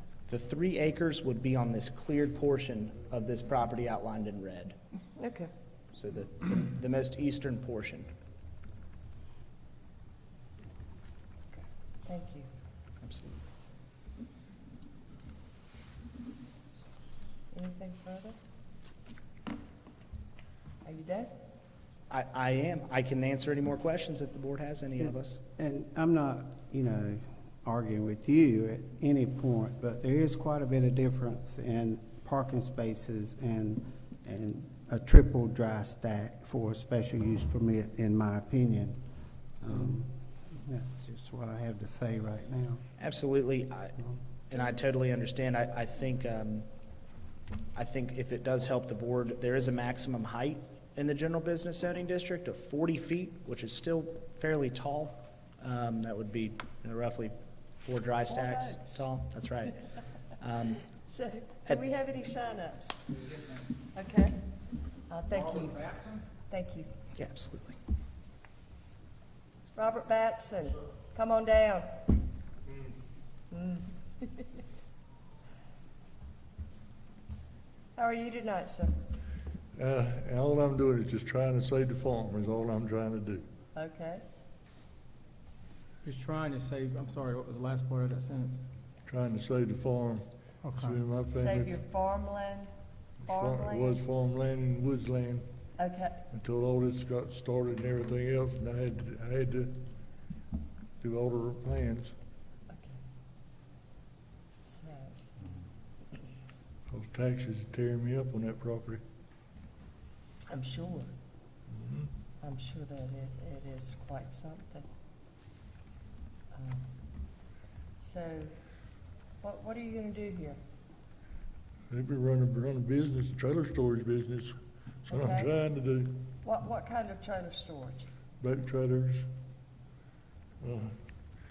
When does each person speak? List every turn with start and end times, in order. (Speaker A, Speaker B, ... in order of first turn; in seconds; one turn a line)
Speaker A: 0.3-4.8
Speaker B: 5.2-5.5
Speaker A: 5.9-8.1
Speaker B: 11.5-12.5
Speaker A: 13.0-13.4
Speaker B: 17.5-18.4
Speaker B: 20.8-21.3
Speaker A: 22.1-25.4
Speaker C: 25.6-39.0
Speaker C: 39.6-42.8
Speaker A: 43.0-46.7
Speaker A: 47.7-59.8
Speaker B: 58.3-59.0
Speaker A: 60.4-60.8
Speaker B: 61.0-63.0
Speaker B: 63.9-64.4
Speaker B: 65.1-66.9
Speaker A: 67.2-67.8
Speaker B: 69.7-72.0
Speaker B: 73.5-74.4
Speaker B: 78.0-78.9
Speaker D: 79.8-83.4
Speaker B: 83.7-84.2
Speaker E: 86.0-88.6
Speaker D: 89.1-90.2
Speaker E: 90.6-91.2
Speaker D: 90.8-91.7
Speaker B: 91.3-92.7
Speaker B: 93.2-94.0
Speaker D: 93.3-95.5
Speaker B: 95.8-96.2
Speaker D: 96.3-99.8
Speaker D: 101.0-102.1
Speaker B: 102.7-103.0
Speaker B: 104.6-105.2
Speaker D: 106.9-109.0
Speaker B: 110.5-111.1
Speaker D: 111.8-112.1
Speaker B: 112.4-114.9
Speaker B: 116.5-116.9
Speaker B: 118.0-118.5
Speaker B: 119.4-120.6
Speaker D: 121.9-126.1
Speaker B: 125.1-125.6
Speaker B: 126.4-128.1
Speaker D: 128.4-129.3
Speaker D: 130.6-130.9